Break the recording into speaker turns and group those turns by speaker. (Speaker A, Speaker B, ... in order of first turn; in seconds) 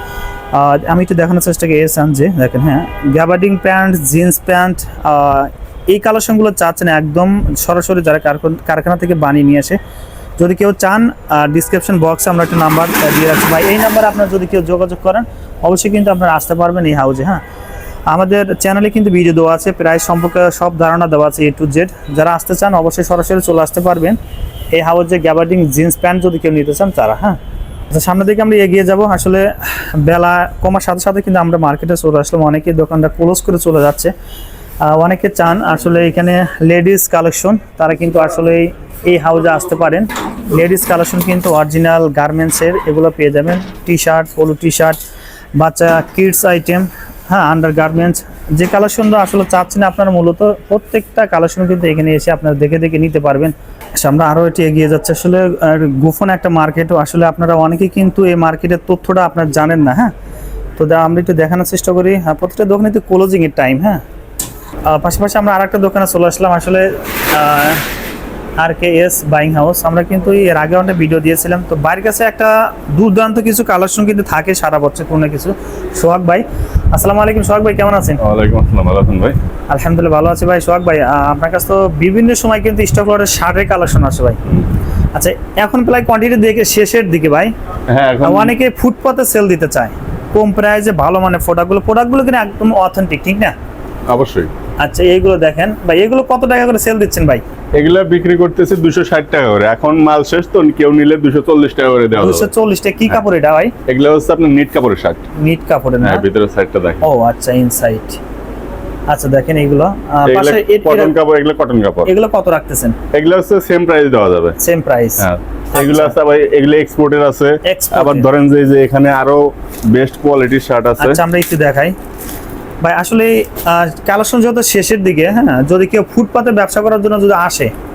Speaker A: 0.5-9.8, 10.4-17.4, 18.1-24.2, 24.7-27.4, 27.9-34.1, 34.8-45.0, 45.6-60.1, 60.8-64.0, 64.8-67.8, 68.6-78.2, 79.7-84.4, 85.1-87.5, 88.2-93.5, 94.8-97.4, 102.1-103.7, 105.4-106.2, 107.0-108.2, 109.1-111.2, 112.0-113.0, 114.6-116.1, 117.6-118.3, 121.0-121.9, 122.8-127.7
Speaker B: 78.2-79.4, 87.9-88.6, 94.1-94.5, 97.8-102.5, 103.9-105.2, 106.0-107.0, 110.2-112.1, 113.1-114.5, 115.2-121.2